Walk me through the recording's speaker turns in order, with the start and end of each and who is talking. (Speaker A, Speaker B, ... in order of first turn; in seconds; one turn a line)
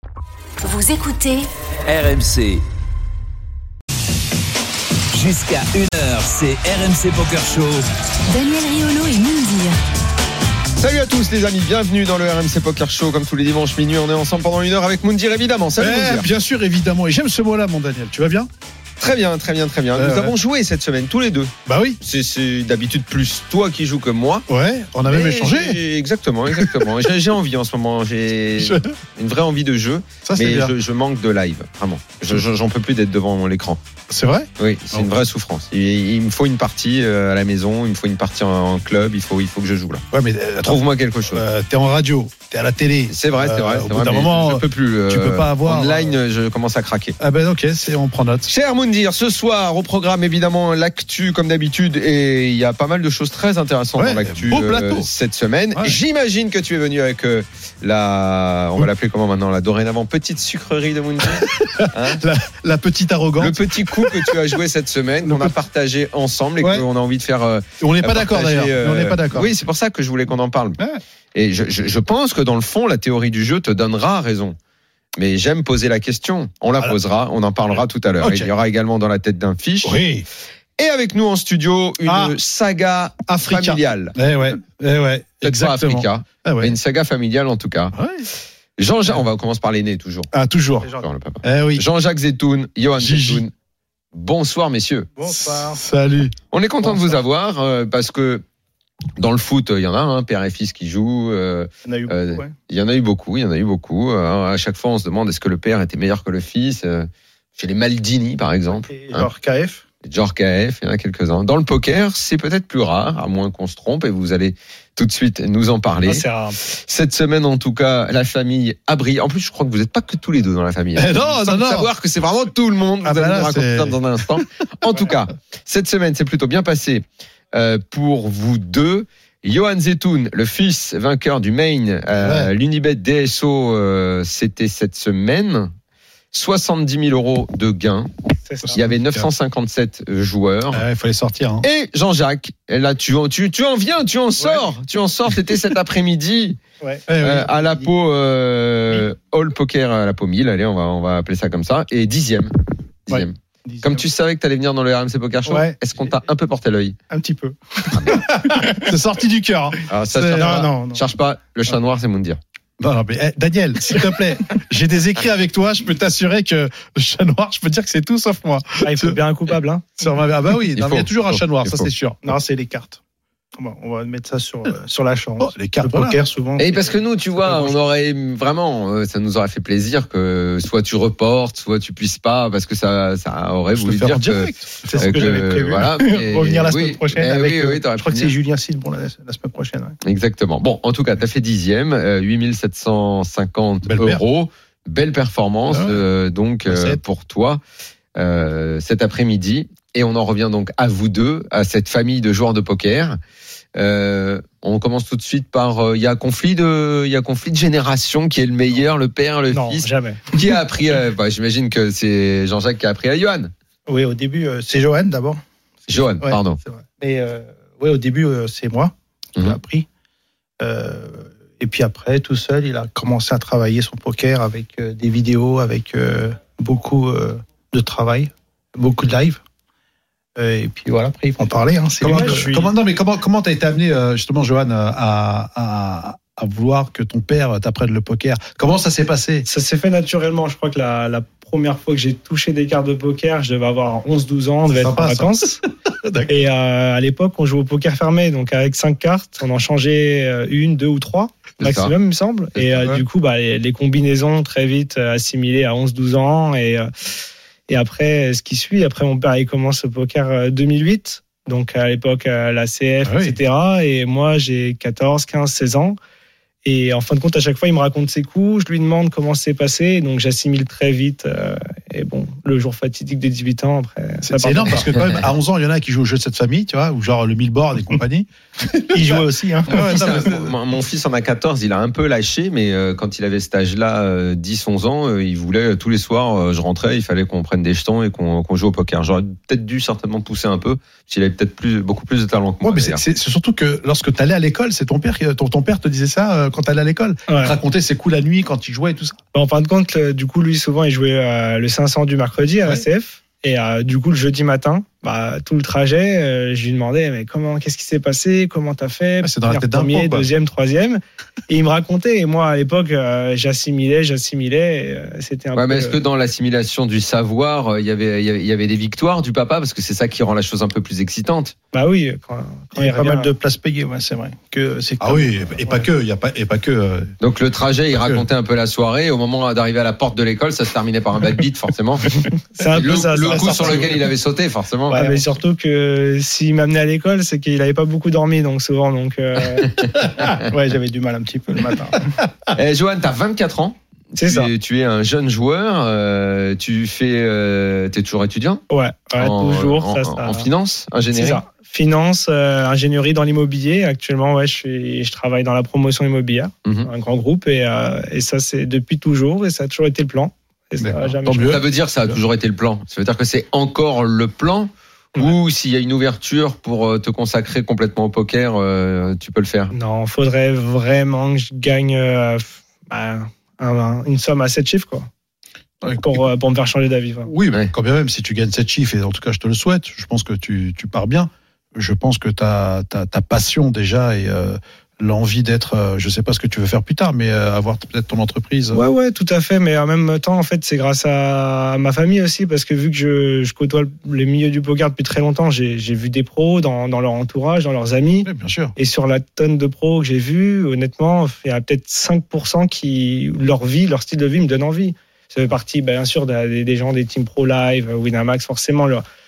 Speaker A: 0.6-1.4
Speaker B: 1.9-2.6
Speaker B: 5.1-7.8
Speaker A: 8.3-9.8
Speaker C: 10.8-16.3
Speaker D: 15.8-18.5
Speaker C: 19.0-24.4
Speaker D: 19.9-20.3
Speaker D: 21.6-22.0
Speaker D: 24.5-25.8
Speaker C: 25.1-33.8
Speaker D: 26.5-26.9
Speaker D: 28.6-28.9
Speaker D: 30.2-30.7
Speaker D: 34.1-35.1
Speaker C: 34.6-40.0
Speaker D: 40.1-46.1
Speaker C: 40.6-41.4
Speaker C: 43.1-47.1
Speaker D: 47.2-48.5
Speaker C: 48.5-62.2
Speaker D: 54.0-55.1
Speaker D: 61.3-64.3
Speaker C: 63.4-70.8
Speaker D: 65.2-65.5
Speaker D: 66.6-66.8
Speaker D: 67.8-69.5
Speaker C: 71.3-74.5
Speaker C: 75.2-80.0
Speaker D: 78.2-78.5
Speaker D: 79.8-80.2
Speaker C: 80.8-84.1
Speaker D: 82.0-82.3
Speaker D: 83.2-86.8
Speaker C: 85.4-87.9
Speaker D: 87.9-88.3
Speaker C: 88.8-90.3
Speaker D: 90.3-90.9
Speaker E: 90.8-91.1
Speaker C: 91.0-93.5
Speaker D: 91.4-91.8
Speaker D: 93.0-93.4
Speaker C: 94.1-95.1
Speaker E: 95.2-95.8
Speaker D: 95.2-96.3
Speaker C: 96.5-98.4
Speaker E: 96.8-97.2
Speaker C: 99.2-109.3
Speaker E: 101.8-102.5
Speaker E: 108.7-109.8
Speaker C: 110.0-135.7
Speaker F: 116.0-116.6
Speaker D: 121.0-121.9
Speaker D: 123.0-124.4
Speaker D: 132.1-132.5
Speaker C: 136.3-138.1
Speaker F: 138.4-138.8
Speaker D: 138.6-139.3
Speaker C: 138.7-140.8
Speaker D: 140.7-141.7
Speaker C: 141.6-146.6
Speaker E: 146.8-147.8
Speaker D: 147.1-147.5
Speaker C: 147.2-152.5
Speaker C: 153.1-156.9
Speaker E: 153.7-154.1
Speaker E: 155.4-156.2
Speaker E: 157.1-158.8
Speaker C: 157.9-158.2
Speaker D: 158.1-160.7
Speaker C: 159.9-162.4
Speaker E: 160.3-161.0
Speaker D: 162.8-169.2
Speaker F: 168.8-170.0
Speaker D: 170.0-172.2
Speaker C: 170.8-171.9
Speaker E: 172.2-173.0
Speaker E: 173.6-177.7
Speaker D: 175.4-176.2
Speaker C: 176.6-188.3
Speaker D: 183.7-185.8
Speaker E: 184.8-189.9
Speaker C: 190.0-197.6
Speaker D: 193.8-194.2
Speaker D: 195.7-196.0
Speaker D: 196.7-197.0
Speaker C: 198.2-203.2
Speaker C: 203.7-213.5
Speaker F: 209.5-210.2
Speaker E: 213.9-219.9
Speaker C: 215.9-216.6
Speaker E: 220.6-229.4
Speaker E: 230.4-232.5
Speaker D: 232.0-239.5
Speaker F: 232.1-232.7
Speaker F: 239.4-245.6
Speaker D: 244.7-245.4
Speaker D: 246.0-246.4
Speaker F: 246.3-256.9
Speaker C: 251.6-251.9
Speaker F: 257.7-266.0
Speaker D: 263.0-263.4
Speaker F: 266.6-274.8
Speaker D: 274.2-280.4
Speaker C: 274.9-275.2
Speaker E: 278.9-280.3
Speaker C: 279.7-293.0
Speaker D: 292.6-299.2
Speaker F: 297.3-297.6
Speaker F: 299.3-316.0
Speaker D: 309.2-310.3
Speaker C: 315.6-321.5
Speaker F: 321.7-323.3
Speaker E: 322.7-325.8
Speaker D: 325.0-327.1
Speaker C: 327.2-335.0
Speaker D: 327.9-328.2
Speaker F: 332.6-333.9
Speaker F: 334.9-339.7
Speaker E: 334.9-335.2
Speaker E: 340.4-342.1
Speaker C: 342.5-348.6
Speaker F: 344.2-344.5
Speaker F: 348.7-350.5
Speaker C: 349.2-351.4
Speaker F: 351.1-361.6
Speaker D: 360.8-362.2
Speaker C: 361.4-369.7
Speaker F: 369.7-375.1
Speaker D: 375.8-376.2
Speaker F: 376.0-377.3
Speaker D: 377.2-388.8
Speaker F: 388.7-409.0
Speaker D: 398.2-398.7